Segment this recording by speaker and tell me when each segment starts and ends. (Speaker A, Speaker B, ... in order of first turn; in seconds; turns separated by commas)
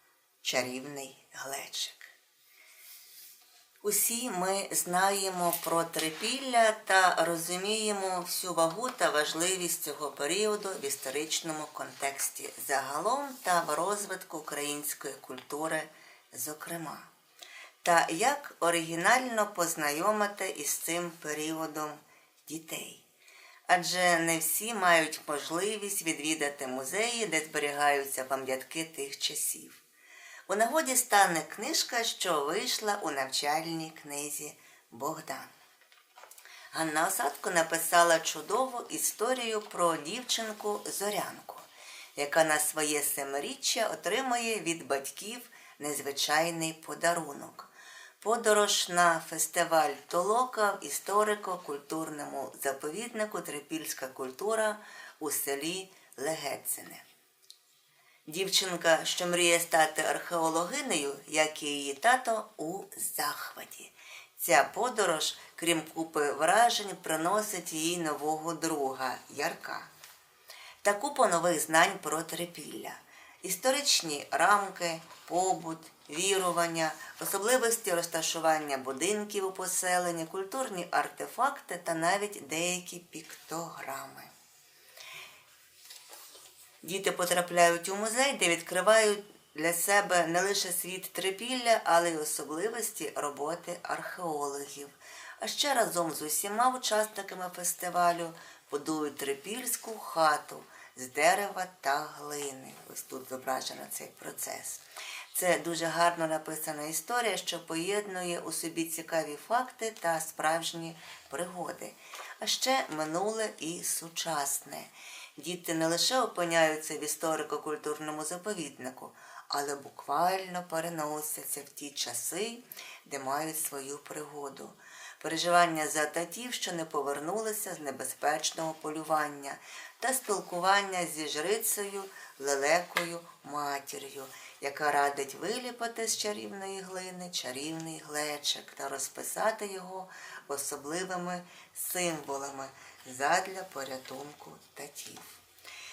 Speaker A: 0.4-2.1, Speaker A: 3.8-17.1, Speaker A: 17.8-23.0, Speaker A: 23.7-29.8, Speaker A: 30.5-35.5, Speaker A: 36.7-47.7, Speaker A: 48.2-57.0, Speaker A: 58.2-69.9, Speaker A: 70.8-84.3, Speaker A: 86.8-145.4